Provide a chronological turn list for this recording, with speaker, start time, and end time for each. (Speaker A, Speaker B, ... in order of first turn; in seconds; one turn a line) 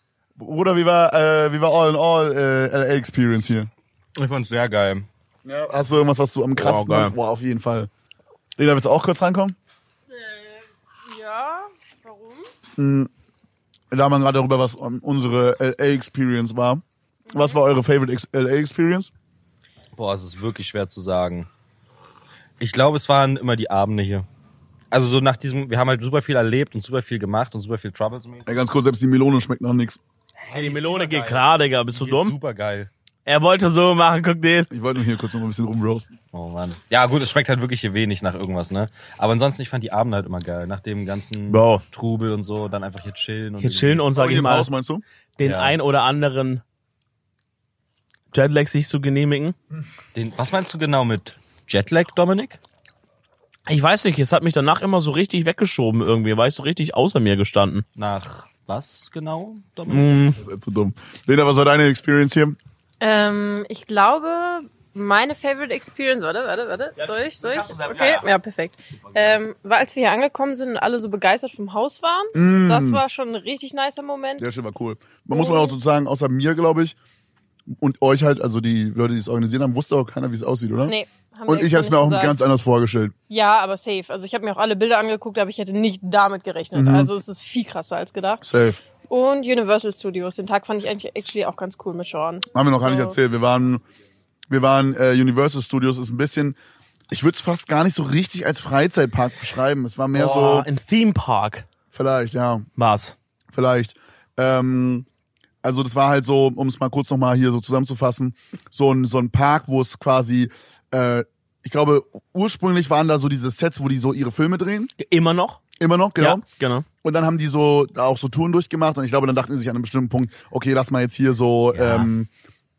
Speaker A: 0.4-3.7
Speaker B: 4.2-5.1
Speaker A: 5.5-7.9
Speaker B: 6.6-7.2
Speaker A: 8.6-9.6
Speaker C: 10.2-10.5
Speaker C: 11.1-12.4
Speaker A: 12.8-13.1
Speaker A: 13.9-16.8
Speaker A: 17.3-19.1
Speaker B: 19.9-21.5
Speaker B: 22.6-24.3
Speaker B: 24.9-28.5
Speaker A: 28.4-30.0
Speaker B: 30.4-32.9
Speaker D: 30.5-32.4
Speaker D: 33.3-34.7
Speaker A: 34.7-36.1
Speaker B: 36.3-44.1
Speaker D: 41.5-41.8
Speaker D: 43.6-44.7
Speaker A: 44.1-45.0
Speaker D: 45.4-46.6
Speaker B: 45.4-45.8
Speaker D: 48.3-49.5
Speaker B: 50.1-52.6
Speaker D: 53.7-57.8
Speaker B: 58.0-60.2
Speaker D: 59.9-60.4
Speaker A: 60.4-62.6
Speaker C: 63.0-74.5
Speaker D: 67.0-68.3
Speaker A: 72.3-73.0
Speaker A: 74.4-77.0
Speaker C: 75.3-75.7
Speaker A: 77.7-80.9
Speaker C: 80.8-82.4
Speaker A: 81.5-83.1
Speaker C: 83.3-88.4
Speaker A: 86.7-87.1
Speaker A: 88.4-88.8
Speaker C: 89.1-93.1
Speaker A: 92.5-93.8
Speaker A: 94.5-96.6
Speaker A: 97.1-100.7
Speaker D: 100.1-101.7
Speaker A: 101.9-102.7
Speaker D: 102.8-103.1
Speaker A: 103.5-105.0
Speaker A: 105.6-114.9
Speaker D: 115.0-115.6
Speaker A: 115.8-116.4
Speaker D: 116.2-116.9
Speaker A: 117.0-122.3
Speaker D: 121.8-122.1